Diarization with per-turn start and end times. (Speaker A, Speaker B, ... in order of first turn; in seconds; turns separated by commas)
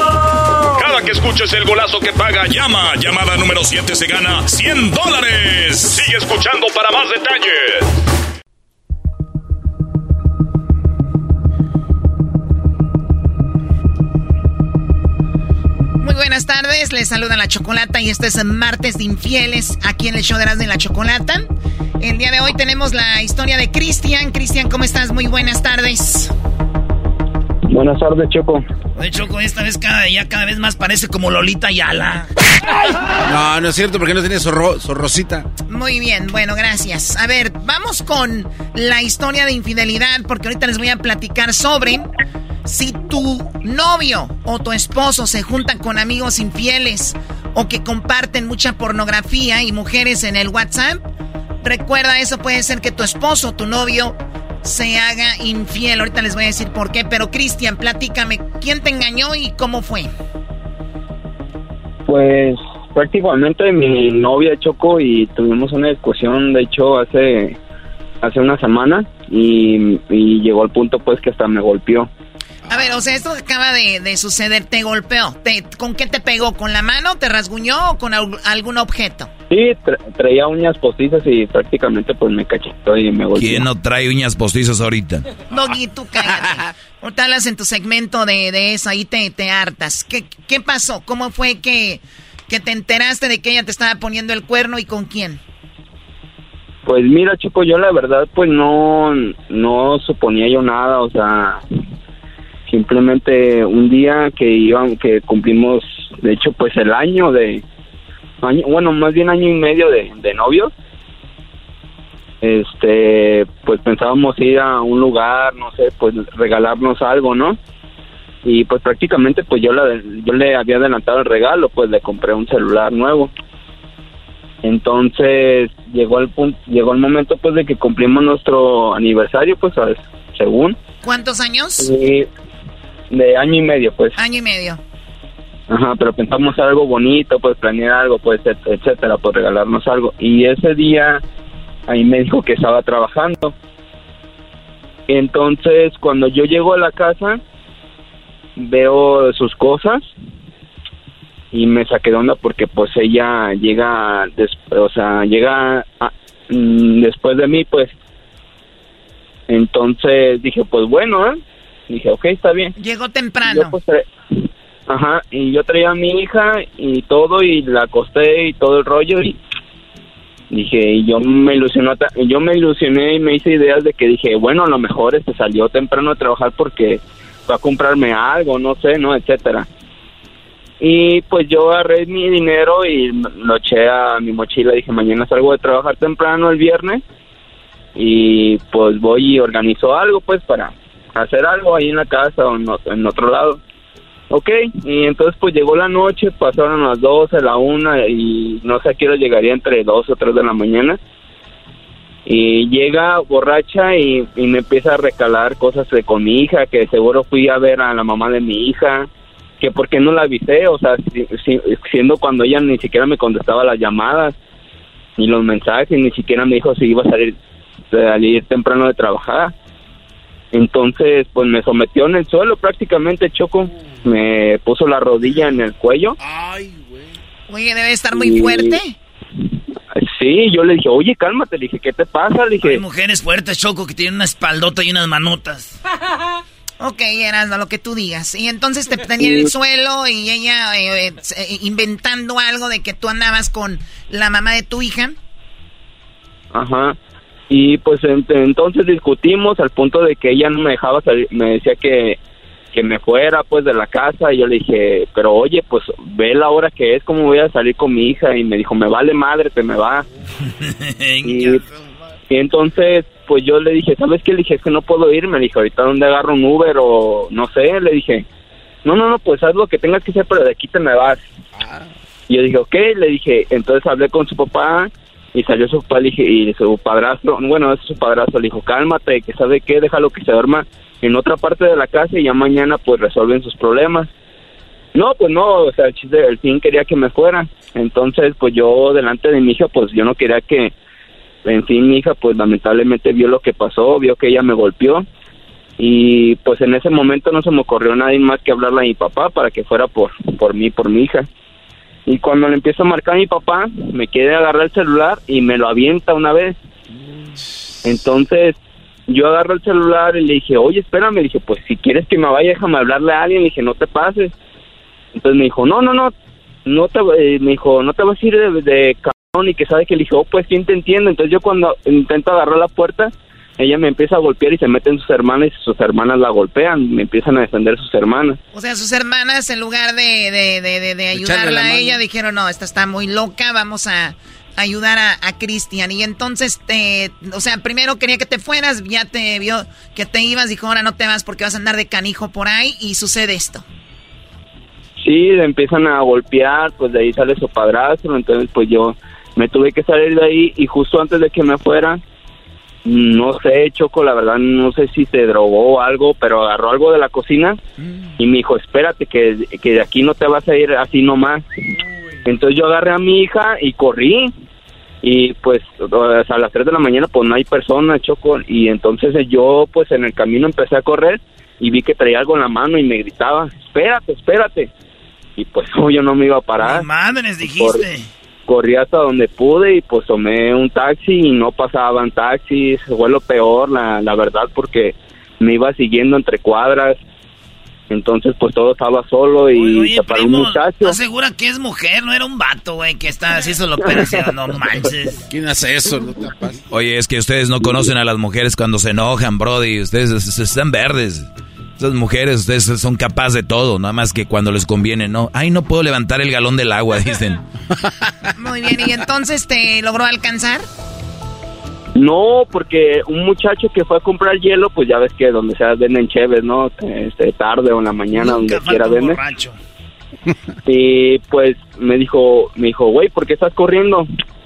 Speaker A: 0.7-7.8, Speaker B: 16.0-21.5, Speaker B: 22.0-26.3, Speaker C: 27.7-28.6, Speaker D: 28.9-32.3, Speaker E: 33.2-35.5, Speaker B: 35.7-42.1, Speaker B: 42.6-51.0, Speaker B: 51.6-60.1, Speaker C: 62.1-67.5, Speaker C: 68.2-72.1, Speaker B: 72.7-79.3, Speaker C: 79.5-83.7, Speaker F: 83.3-85.2, Speaker B: 85.5-95.4, Speaker C: 96.8-101.6, Speaker C: 102.7-107.6, Speaker C: 108.4-110.7, Speaker C: 112.4-117.6, Speaker C: 118.4-123.3, Speaker C: 124.6-130.8, Speaker B: 131.0-131.9, Speaker C: 131.8-132.3, Speaker C: 133.1-134.2, Speaker B: 134.2-134.8, Speaker C: 135.7-141.2, Speaker C: 141.9-143.5, Speaker C: 145.1-147.4, Speaker C: 148.6-150.0, Speaker C: 151.5-157.9, Speaker C: 159.5-162.7, Speaker B: 162.8-163.7, Speaker C: 163.4-164.0, Speaker C: 164.9-169.4, Speaker C: 170.5-179.7, Speaker C: 180.8-187.0, Speaker C: 187.9-193.6, Speaker C: 194.3-201.0, Speaker C: 202.2-209.1, Speaker C: 209.6-214.3, Speaker C: 215.2-217.3, Speaker C: 217.9-219.5, Speaker C: 220.5-226.1, Speaker E: 226.2-227.1, Speaker B: 227.5-228.9, Speaker C: 228.2-228.8, Speaker C: 229.9-232.8, Speaker D: 232.6-235.7, Speaker B: 236.8-245.1, Speaker C: 239.2-239.5, Speaker C: 246.5-246.9, Speaker C: 247.5-252.2, Speaker C: 252.7-260.0, Speaker D: 260.6-261.8, Speaker C: 261.2-261.6, Speaker C: 262.3-268.2, Speaker C: 268.8-271.2, Speaker E: 271.6-271.9, Speaker C: 272.3-284.1, Speaker C: 284.9-290.7, Speaker C: 291.4-295.0, Speaker C: 295.8-301.3, Speaker C: 302.1-306.6, Speaker C: 307.9-308.6, Speaker C: 309.1-314.3, Speaker C: 315.1-316.1, Speaker C: 316.6-328.4, Speaker B: 328.5-343.6, Speaker E: 331.1-332.0, Speaker C: 345.0-352.0, Speaker C: 352.8-357.6, Speaker C: 358.2-361.4, Speaker C: 362.2-364.3, Speaker C: 365.0-374.7, Speaker C: 375.4-376.8, Speaker D: 376.6-378.1, Speaker C: 378.5-387.0, Speaker C: 387.9-390.9, Speaker D: 389.5-395.2, Speaker E: 395.3-396.6, Speaker F: 396.7-401.3, Speaker F: 401.8-407.4, Speaker B: 408.4-410.6, Speaker C: 412.0-419.2, Speaker D: 418.1-419.6, Speaker C: 420.7-424.1